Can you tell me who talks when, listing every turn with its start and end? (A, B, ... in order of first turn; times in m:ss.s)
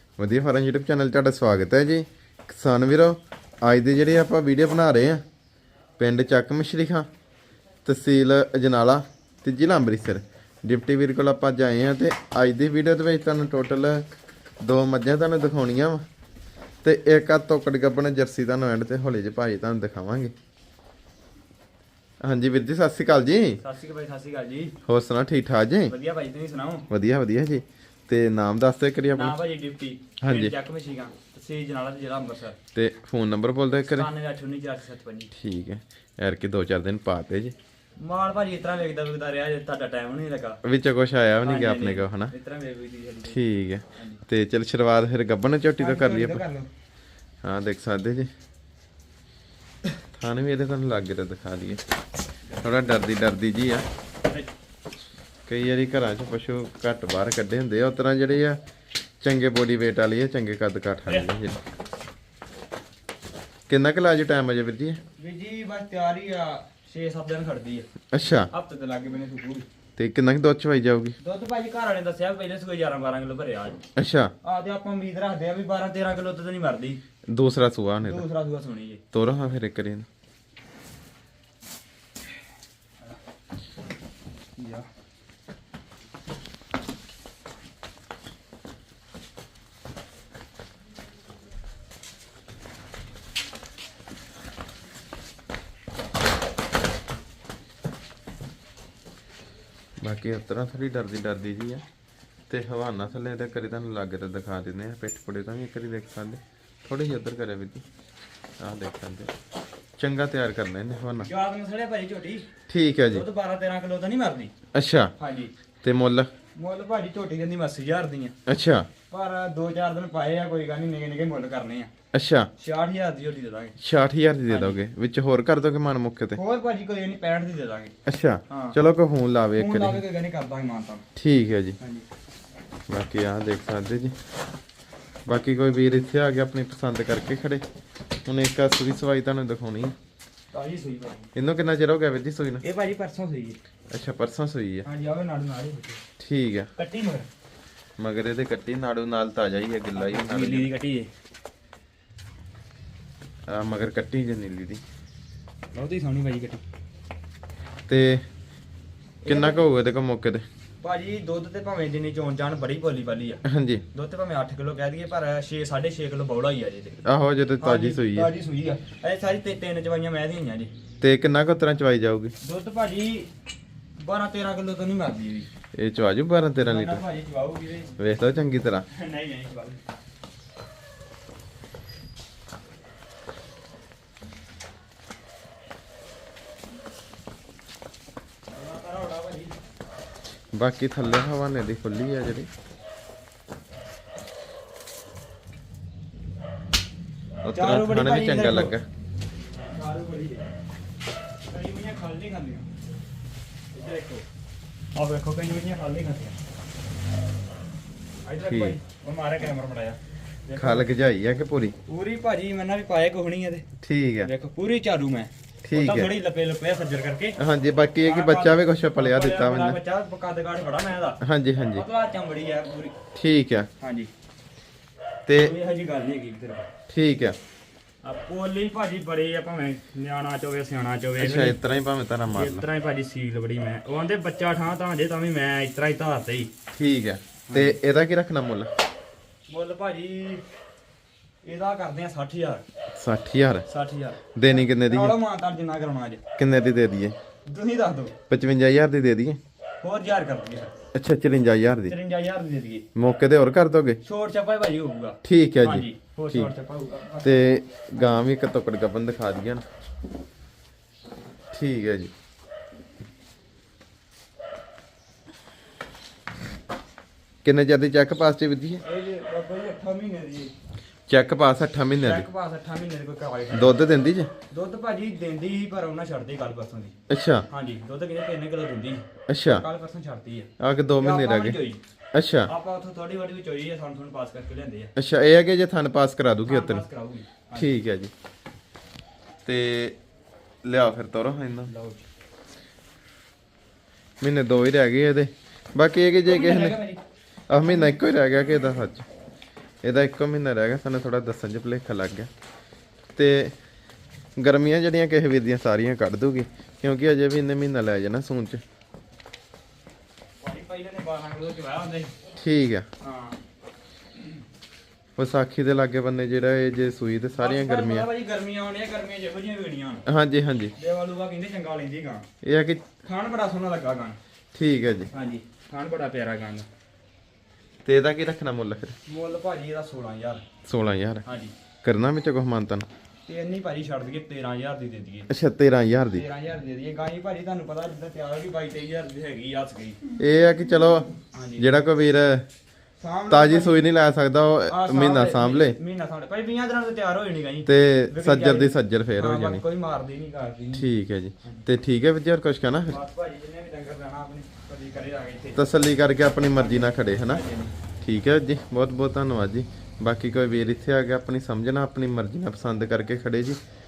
0:00.2-0:05.2 A
0:06.0-0:07.0 A
0:07.8-0:14.0 A
0:14.6-0:16.0 A
0:16.8-0:20.3 A
0:22.2-0:23.6 A
0:23.6-0:24.8 B
0:24.9-0:25.9 A
0:25.9-0:26.9 B
0:26.9-0:29.3 A
0:29.2-0:32.6 B
0:30.2-0:30.5 A
0:32.7-0:34.1 A
0:33.9-0:35.3 B
0:35.3-0:37.6 A
0:38.0-0:40.6 B
0:40.6-0:42.3 A
0:41.4-0:43.4 B
0:43.3-0:46.4 A
0:44.0-0:44.2 B
0:45.8-0:46.7 B
0:47.4-0:48.3 A
0:50.1-0:51.8 A
0:52.6-0:53.8 A
0:54.2-0:54.5 B
0:55.5-0:58.6 A
0:59.2-1:01.6 A
1:03.7-1:05.0 A
1:05.2-1:07.9 B
1:08.1-1:08.5 A
1:08.5-1:09.7 B
1:10.0-1:11.2 A
1:11.2-1:13.8 B
1:14.0-1:14.3 A
1:14.4-1:17.0 B
1:17.3-1:18.2 A
1:18.0-1:19.0 B
1:19.1-1:20.1 A
1:24.6-1:24.9 B
1:40.0-1:41.8 A
1:42.5-1:47.8 A
1:48.6-1:49.3 A
1:50.0-1:51.3 A
1:51.2-1:52.5 B
1:52.7-1:53.2 A
1:53.1-1:54.5 B
1:54.7-1:55.1 A
1:55.2-1:55.5 B
1:55.8-1:56.3 A
1:56.5-1:58.3 B
1:58.4-1:58.9 A
1:59.1-2:01.9 B
2:02.1-2:02.5 A
2:02.6-2:03.8 B
2:03.8-2:06.4 A
2:04.5-2:04.8 B
2:06.3-2:07.9 B
2:08.1-2:10.0 A
2:08.5-2:08.8 B
2:09.6-2:11.0 B
2:11.2-2:11.8 A
2:11.8-2:12.1 B
2:12.9-2:14.1 A
2:15.2-2:17.6 A
2:18.2-2:19.9 A
2:20.5-2:21.3 B
2:21.3-2:22.6 A
2:22.6-2:23.6 B
2:23.9-2:24.8 A
2:24.8-2:26.0 B
2:26.2-2:26.7 A
2:26.8-2:27.3 B
2:28.0-2:30.7 A
2:30.0-2:31.1 B
2:33.5-2:34.8 A
2:35.7-2:36.6 B
2:37.9-2:38.2 A
2:39.2-2:39.6 B
2:39.2-2:40.4 A
2:40.8-2:43.4 B
2:43.4-2:43.8 A
2:43.9-2:47.0 B
2:47.0-2:48.3 A
2:47.6-2:50.7 B
2:51.0-2:52.3 A
2:52.4-2:53.3 B
2:54.0-2:55.5 B
2:55.7-2:57.0 A
2:56.6-2:58.0 B
2:58.0-2:58.8 A
2:58.9-2:59.8 B
3:08.5-3:09.6 B
3:10.5-3:12.5 A
3:17.4-3:18.8 A
3:17.5-3:18.7 B
3:19.6-3:20.4 B
3:21.5-3:22.7 B
3:23.7-3:24.2 B
3:24.9-3:26.4 B
3:28.2-3:30.9 B
3:28.4-3:28.8 A
3:30.6-3:31.8 A
3:31.8-3:33.7 B
3:33.8-3:34.3 A
3:34.2-3:37.4 B
3:35.6-3:36.1 A
3:37.4-3:39.8 A
3:38.0-3:41.2 B
3:41.2-3:41.8 A
3:41.8-3:42.9 B
3:43.1-3:43.7 A
3:43.8-3:44.1 B
3:45.3-3:45.5 A
3:45.3-3:46.7 B
3:46.9-3:47.4 A
3:48.0-3:51.6 B
3:51.2-3:52.7 A
3:52.3-3:56.5 B
3:56.7-3:58.7 A
3:57.5-3:57.8 B
3:59.5-4:00.4 B
4:01.4-4:02.6 B
4:02.9-4:03.6 A
4:03.7-4:06.2 B
4:04.3-4:05.1 A
4:06.4-4:07.2 A
4:07.4-4:08.1 B
4:08.3-4:09.4 A
4:09.8-4:10.7 B
4:10.9-4:11.9 A
4:11.9-4:12.8 B
4:12.9-4:14.0 A
4:14.0-4:18.2 B
4:15.2-4:16.5 A
4:17.2-4:19.6 A
4:21.5-4:22.1 A
4:27.4-4:28.8 A
4:28.8-4:30.5 B
4:31.1-4:32.2 A
4:32.0-4:33.8 B
4:33.5-4:34.3 A
4:34.5-4:37.0 B
4:37.1-4:37.5 A
4:37.5-4:41.8 B
4:39.3-4:39.6 A
4:40.6-4:41.6 A
4:42.1-4:42.5 A
4:42.5-4:44.9 B
4:45.0-4:46.8 A
4:46.5-4:47.8 B
4:47.6-4:48.1 A
4:49.4-4:50.0 A
4:50.6-4:51.7 A
4:51.7-4:52.0 B
4:54.2-4:56.8 A
4:56.2-4:57.0 B
4:57.5-4:59.1 A
4:59.8-5:02.3 A
5:03.2-5:03.6 A
5:04.4-5:08.6 A
5:10.4-5:12.2 B
5:12.4-5:12.9 A
5:13.0-5:13.4 B
5:15.2-5:18.1 A
5:17.4-5:20.0 B
5:20.1-5:20.7 A
5:20.8-5:22.2 B
5:22.4-5:22.9 A
5:23.0-5:24.2 B
5:24.5-5:25.1 A
5:25.1-5:26.7 B
5:27.8-5:29.0 A
5:29.1-5:30.4 B
5:30.7-5:31.2 A
5:31.2-5:31.5 B
5:31.8-5:32.9 A
5:33.2-5:35.3 B
5:35.3-5:36.2 A
5:36.1-5:40.0 B
5:40.2-5:42.5 A
5:41.3-5:41.7 B
5:43.0-5:43.8 B
5:43.3-5:45.8 A
5:44.7-5:50.9 B
5:47.7-5:49.6 A
5:50.7-5:53.0 A
5:52.9-5:55.6 B
5:55.6-5:57.4 A
5:56.6-5:57.8 B
5:58.0-6:03.6 A